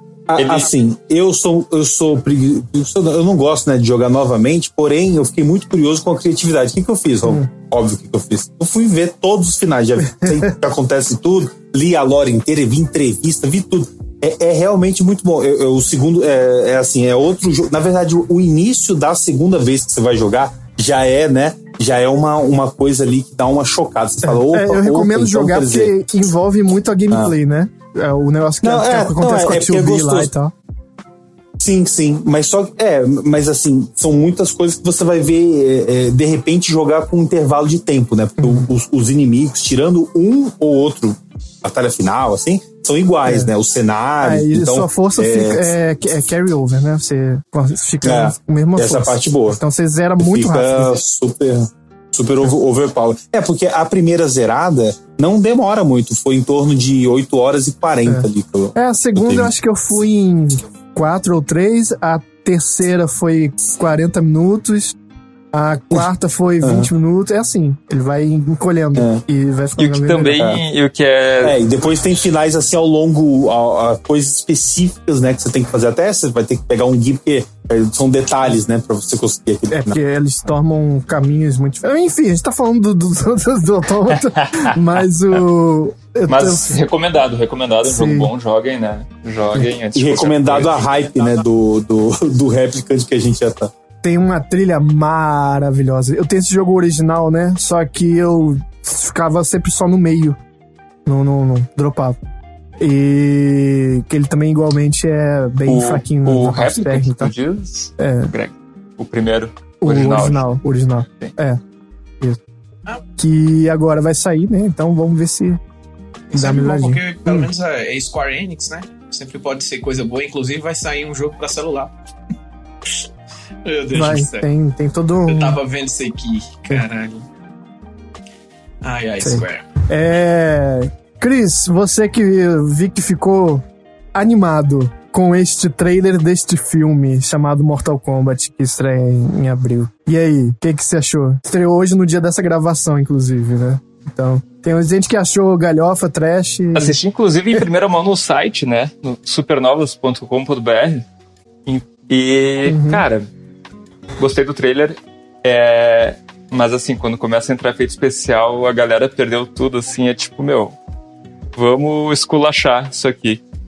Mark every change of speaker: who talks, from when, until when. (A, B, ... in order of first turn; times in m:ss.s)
0:00.3-0:25.9 A
0:00.4-0:00.7 B
0:24.2-0:30.5 C
0:28.6-0:30.3 A
0:31.6-0:45.7 A
0:38.4-0:38.7 C
0:43.2-0:43.5 C
0:44.2-0:51.0 C
0:48.0-0:49.6 A
0:50.2-0:59.5 A
0:58.0-1:05.0 C
1:05.5-1:10.4 C
1:06.6-1:06.9 A
1:09.0-1:09.2 A
1:09.8-1:11.6 B
1:11.4-1:20.0 A
1:19.7-1:26.8 C
1:24.2-1:24.9 B
1:26.3-1:30.9 B
1:27.8-1:28.3 C
1:29.9-1:33.7 A
1:34.0-1:40.4 C
1:41.1-1:42.2 C
1:42.8-1:47.3 C
1:45.7-1:50.5 B
1:48.0-1:48.3 C
1:49.8-1:51.6 C
1:53.2-1:55.6 C
1:56.3-2:01.9 D
1:56.4-1:57.5 C
2:03.6-2:04.5 D
2:03.9-2:05.6 C
2:05.3-2:07.3 D
2:08.8-2:09.7 D
2:09.2-2:27.0 C
2:26.7-2:31.1 B
2:31.7-2:33.3 B
2:32.6-2:33.0 C
2:34.2-2:40.8 B
2:41.6-2:43.4 B